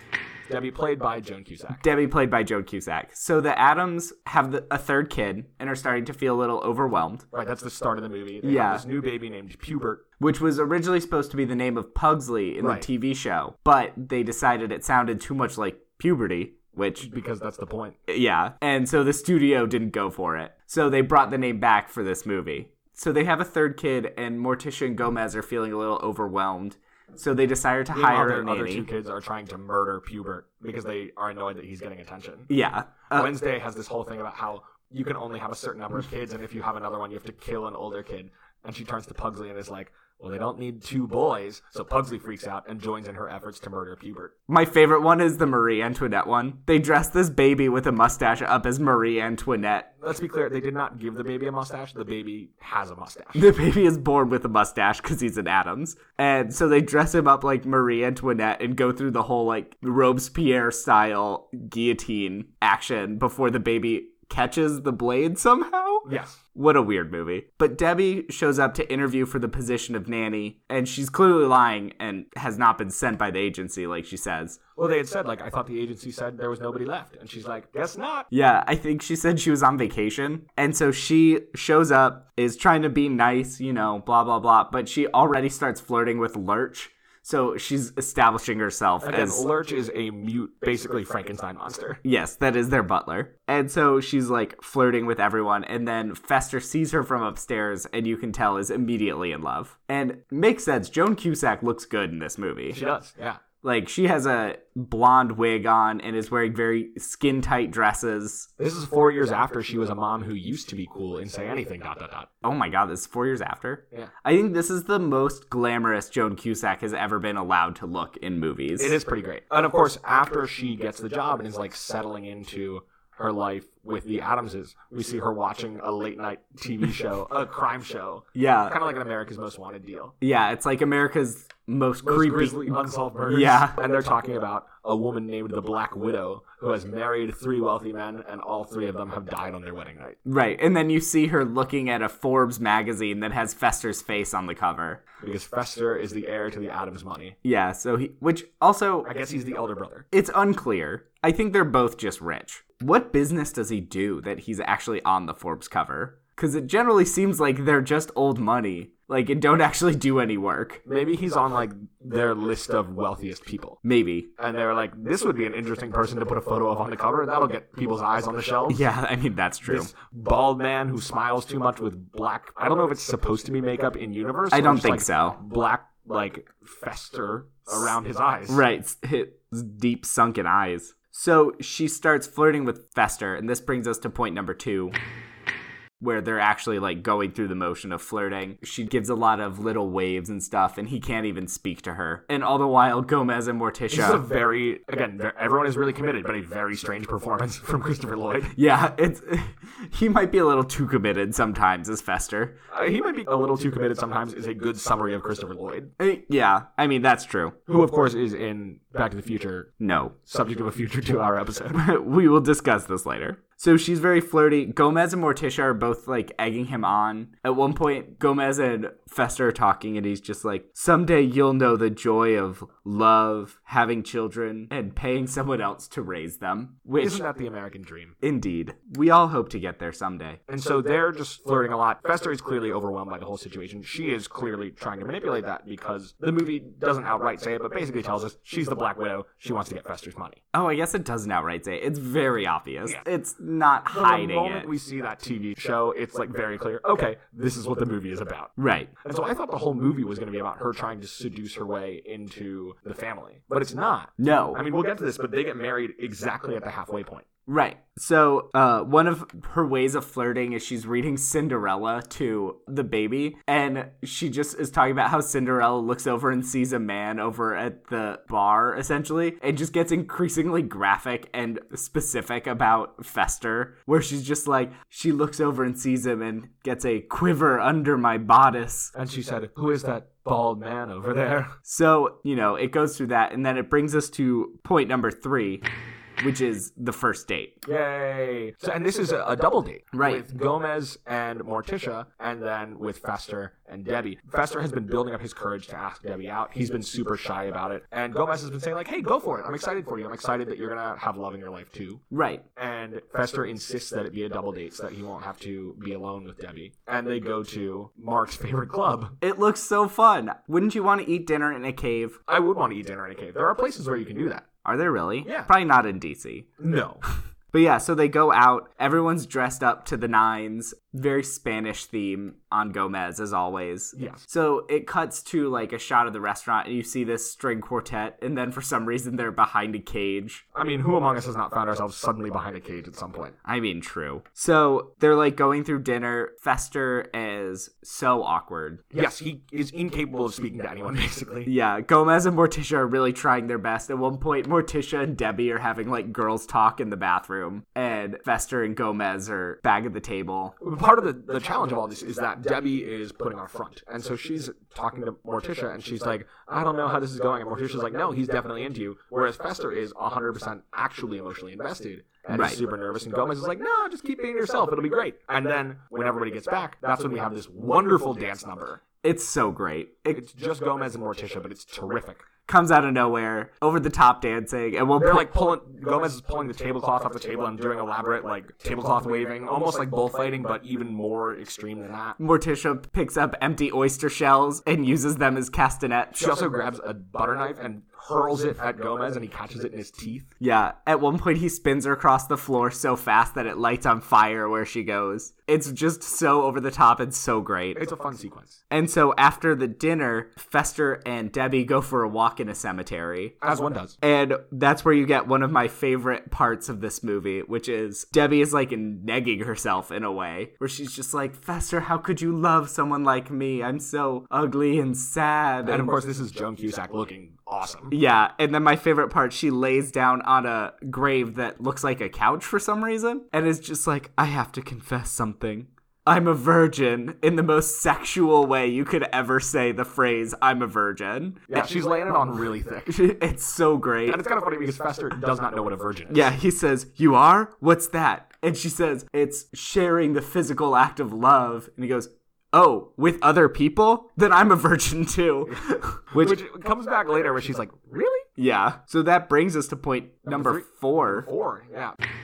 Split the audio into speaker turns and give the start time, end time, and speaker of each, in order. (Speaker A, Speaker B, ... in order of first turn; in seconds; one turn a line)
Speaker A: 0.5-1.8
Speaker B: 1.8-7.2
Speaker A: 7.3-10.0
Speaker B: 8.4-8.8
Speaker B: 10.2-17.1
Speaker A: 12.6-12.9
Speaker A: 17.0-18.0
Speaker B: 18.1-28.9
Speaker A: 27.9-32.5
Speaker B: 32.5-33.3
Speaker A: 33.1-44.3
Speaker B: 44.5-49.9
Speaker A: 50.0-53.5
Speaker B: 53.3-74.6
Speaker A: 66.0-66.4
Speaker A: 74.8-78.3
Speaker B: 78.3-89.4
Speaker A: 89.0-92.0
Speaker B: 92.0-102.8
Speaker A: 102.7-103.4
Speaker B: 103.6-108.5
Speaker A: 108.6-112.3
Speaker B: 112.4-119.0
Speaker A: 118.8-130.1
Speaker B: 128.3-128.8
Speaker B: 130.2-133.8
Speaker A: 132.0-140.2
Speaker B: 140.2-145.0
Speaker A: 145.2-147.3
Speaker B: 147.4-149.1
Speaker A: 149.0-150.1
Speaker B: 150.1-160.8
Speaker A: 160.8-163.8
Speaker B: 163.8-164.3
Speaker A: 164.4-168.8
Speaker B: 168.7-169.9
Speaker A: 169.6-178.6
Speaker B: 174.5-175.4
Speaker B: 178.5-184.9
Speaker B: 186.0-194.2
Speaker A: 193.9-198.5
Speaker B: 198.5-202.6
Speaker A: 202.7-205.9
Speaker B: 206.0-207.6
Speaker A: 207.7-209.7
Speaker B: 209.8-210.1
Speaker A: 210.2-211.8
Speaker B: 211.7-227.2
Speaker A: 227.0-228.1
Speaker B: 228.2-230.4
Speaker A: 230.5-240.4
Speaker B: 240.5-244.7
Speaker A: 243.9-257.2
Speaker B: 248.6-248.9
Speaker B: 254.2-254.6
Speaker B: 257.5-278.9
Speaker A: 278.9-281.5
Speaker B: 281.6-285.6
Speaker B: 286.2-287.6
Speaker A: 287.6-302.0
Speaker B: 289.9-290.2
Speaker B: 302.1-302.4
Speaker A: 302.6-309.1
Speaker B: 309.2-312.2
Speaker A: 312.3-314.5
Speaker B: 314.6-316.5
Speaker A: 315.2-315.5
Speaker A: 316.6-317.0
Speaker B: 317.5-330.4
Speaker A: 323.9-324.2
Speaker A: 330.5-333.4
Speaker B: 333.4-338.8
Speaker A: 338.9-341.5
Speaker B: 341.4-350.5
Speaker A: 350.6-368.8
Speaker B: 362.3-362.6
Speaker B: 369.0-370.2
Speaker A: 370.1-372.2
Speaker B: 372.5-375.3
Speaker A: 374.9-382.2
Speaker B: 382.2-386.4
Speaker A: 386.1-390.3
Speaker B: 390.4-397.8
Speaker A: 397.7-398.6
Speaker B: 398.7-403.4
Speaker A: 403.4-404.0
Speaker B: 404.0-415.9
Speaker A: 415.6-417.9
Speaker B: 417.9-431.7
Speaker A: 431.5-432.9
Speaker B: 432.9-434.2
Speaker A: 434.1-436.3
Speaker B: 436.1-446.4
Speaker A: 446.1-448.3
Speaker B: 448.4-451.3
Speaker A: 450.2-451.9